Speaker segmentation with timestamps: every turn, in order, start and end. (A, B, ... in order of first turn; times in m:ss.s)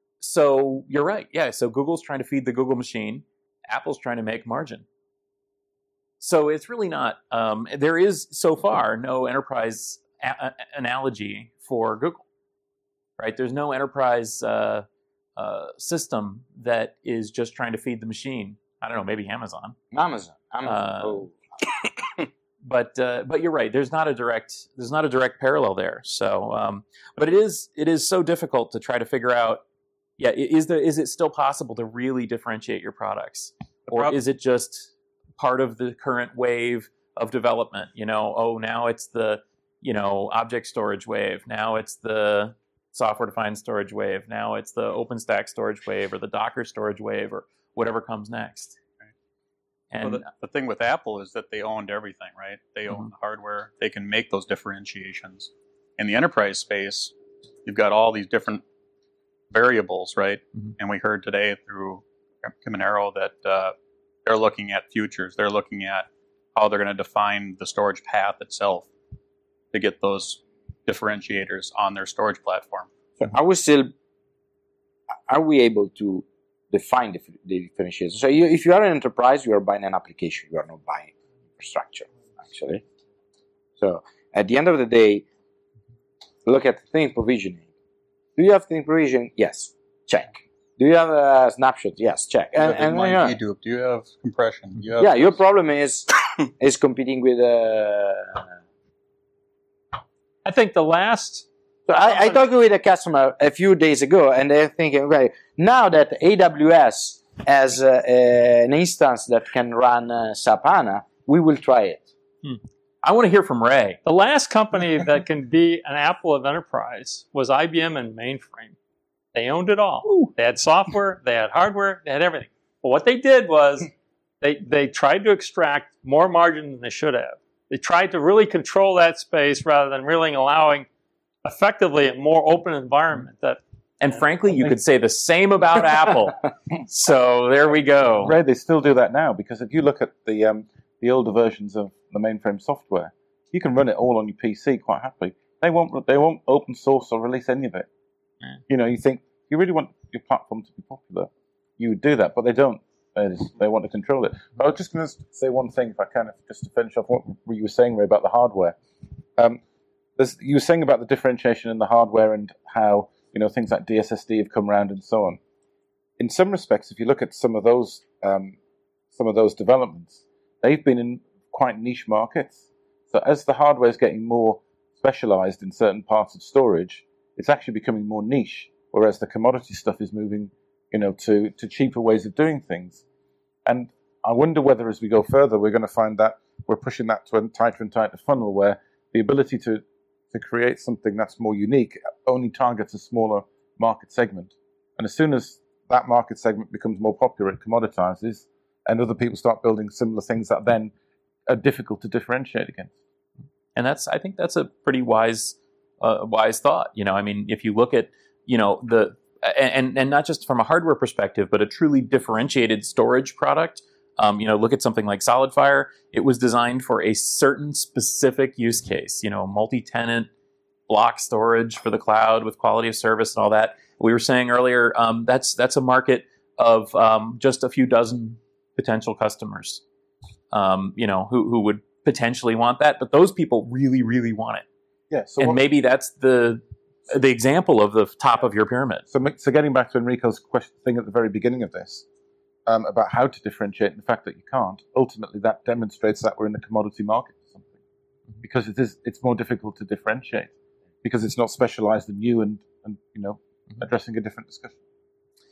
0:00.2-0:04.9 A
0:06.2-0:12.2 A
0:13.2-0:14.8 A
0:15.4-0:19.8 A
0:19.9-0:21.4 B
0:20.6-0:21.2 A
0:22.6-0:29.6 A
0:30.2-0:48.8 A
0:49.9-0:50.3 A
0:50.0-0:50.3 C
0:50.3-0:58.6 D
0:59.5-1:08.9 D
1:09.7-1:12.9 D
1:13.2-1:13.9 B
1:15.3-1:22.8 B
1:23.8-1:25.2 B
1:26.4-1:27.7 B
1:28.4-1:33.4 B
1:32.6-1:35.4 D
1:35.0-1:38.5 B
1:40.4-1:41.5 C
1:41.9-1:52.1 B
1:42.0-1:42.4 C
1:53.0-1:54.0 A
1:54.0-1:58.8 C
1:59.3-2:10.9 C
2:00.0-2:00.3 A
2:11.4-2:14.2 C
2:14.0-2:18.3 A
2:18.2-2:27.9 E
2:28.7-2:38.8 E
2:40.2-2:45.4 E
2:46.2-2:48.6 E
2:49.1-3:03.0 E
3:03.6-3:20.9 E
3:21.5-3:23.0 E
3:23.8-3:40.3 A
3:40.9-3:49.8 A
3:50.5-3:54.6 A
3:55.1-3:55.6 E
3:55.4-3:59.0 A
3:59.1-4:02.0 E
4:02.7-4:07.8 E
4:08.4-4:14.8 E